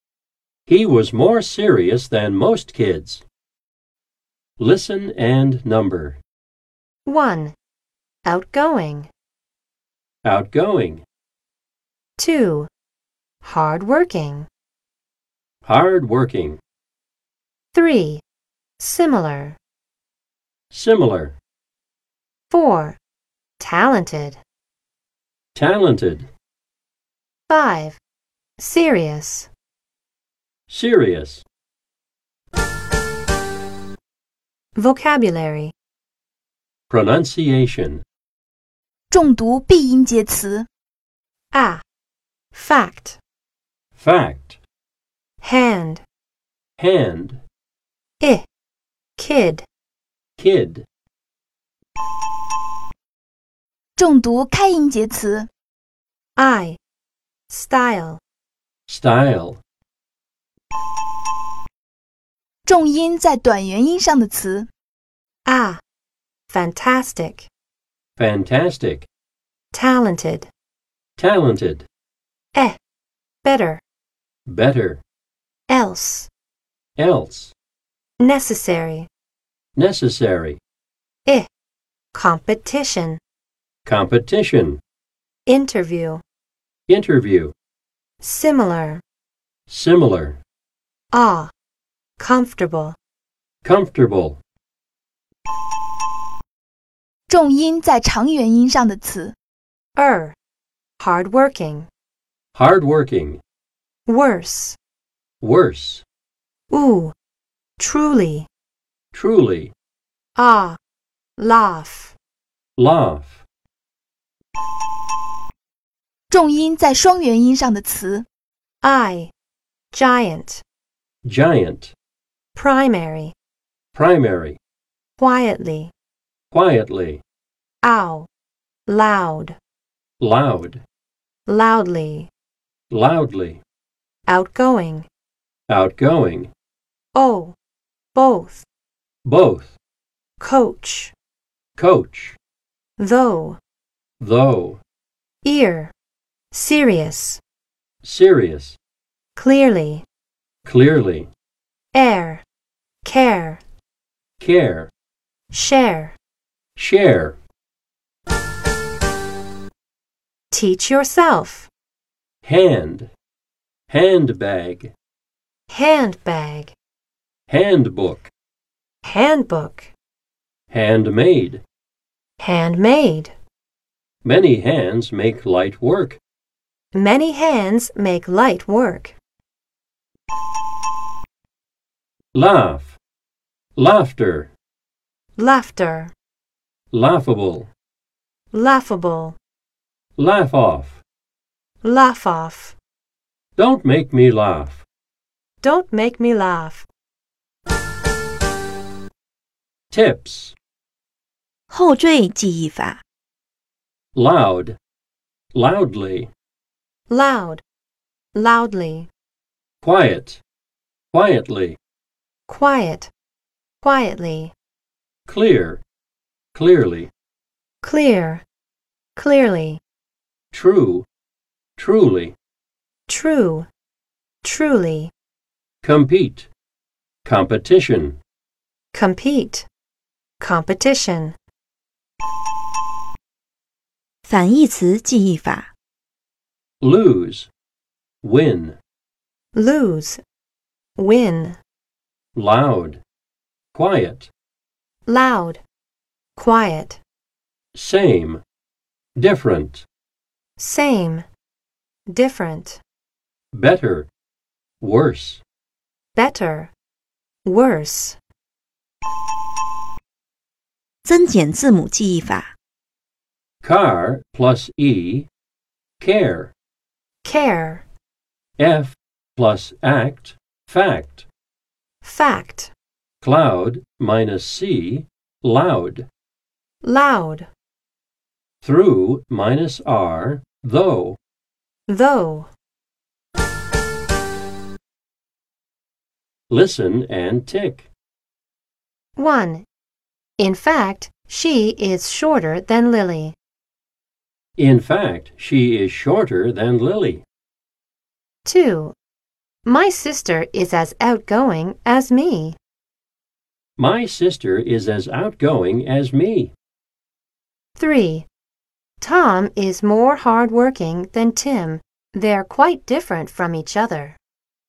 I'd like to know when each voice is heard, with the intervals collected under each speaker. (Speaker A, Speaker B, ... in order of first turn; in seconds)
Speaker A: 0.7-3.2, 4.6-6.2, 10.2-11.0, 15.6-16.6, 20.7-21.3, 25.5-26.3, 30.7-31.4, 36.9-38.0, 44.0-44.6, 46.8-47.4, 50.4-50.9, 58.9-59.6, 68.2-69.1, 71.2-71.8, 74.5-75.0, 77.0-77.5, 79.8-80.6, 83.8-84.8, 86.9-87.5, 89.7-90.4, 93.6-94.4, 102.5-103.4, 105.4-106.0, 109.1-109.7, 112.8-113.4, 121.2-121.9, 123.9-124.6, 126.5-127.2, 130.2-130.8, 132.9-133.6, 135.7-136.5, 139.2-139.8, 141.8-142.4, 144.2-144.8, 148.0-148.8, 150.6-151.3, 154.4-154.9, 156.8-157.3, 162.4-163.1, 163.9-164.9, 167.5-168.3, 170.7-171.6, 174.2-176.2, 182.3-183.0, 183.8-184.5, 186.9-187.7, 190.2-191.0, 193.6-194.8, 199.9-200.5, 204.1-204.8, 205.5-206.3, 209.8-210.4, 211.1-211.8, 215.3-215.8, 216.5-217.1, 220.5-221.1, 221.8-222.3, 225.8-226.5, 227.2-228.2, 236.8-237.5, 238.2-238.8, 242.3-243.0, 243.7-244.3, 247.7-248.4, 249.2-249.8, 253.5-254.1, 254.8-255.4, 263.6-265.3, 266.0-266.5, 268.6-271.2, 273.2-276.1, 278.6-281.2, 286.5-287.9, 294.6-297.2, 303.8-306.5
Speaker B: 7.0-7.5, 8.2-9.1, 12.2-12.7, 13.4-14.5, 17.7-18.2, 18.8-19.6, 22.5-23.0, 23.6-24.4, 27.5-28.0, 28.6-29.5, 34.8-35.7, 41.5-41.8, 42.5-43.2, 45.4-46.0, 48.2-48.5, 49.2-49.6, 56.4-56.8, 57.5-58.2, 65.5-65.8, 66.5-67.5, 69.7-70.5, 73.4-73.8, 75.7-76.3, 78.2-79.1, 82.1-83.2, 85.5-86.2, 88.2-89.0, 91.1-91.5, 92.2-93.0, 100.0-100.3, 101.0-101.9, 104.1-104.8, 106.7-107.1, 107.8-108.5, 110.3-110.8, 111.4-112.1, 118.8-119.3, 119.9-120.6, 122.5-123.3, 125.2-125.9, 127.8-128.3, 128.9-129.6, 131.5-132.3, 134.3-135.1, 137.1-137.6, 138.1-138.7, 140.4-141.1, 143.0-143.6, 145.4-145.9, 146.5-147.4, 149.3-150.0, 151.9-152.4, 153.0-153.6, 155.5-156.1, 160.5-161.7, 165.7-166.7, 169.0-169.9, 172.4-173.3, 176.9-179.1, 185.3-186.1, 188.5-189.3, 191.8-192.8, 195.6-196.8, 207.1-207.6, 208.3-209.1, 212.5-213.1, 213.8-214.5, 217.8-218.4, 219.2-219.8, 223.1-223.7, 224.4-225.1, 228.9-229.7, 230.4-231.3, 239.5-240.2, 241.0-241.6, 245.1-245.6, 246.3-247.0, 250.6-251.2, 252.1-252.8, 256.1-256.7, 257.4-258.1, 267.2-267.8, 272.0-272.7, 276.8-277.5, 281.9-282.5, 289.1-289.6, 290.4-293.3, 298.4-298.9, 299.6-302.6, 307.8-308.3, 309.0-314.2
Speaker C: 39.1-40.7, 54.0-55.5, 62.6-64.7, 97.3-99.3, 116.3-118.2
Speaker D: 201.7-203.0, 234.3-235.7, 261.0-262.5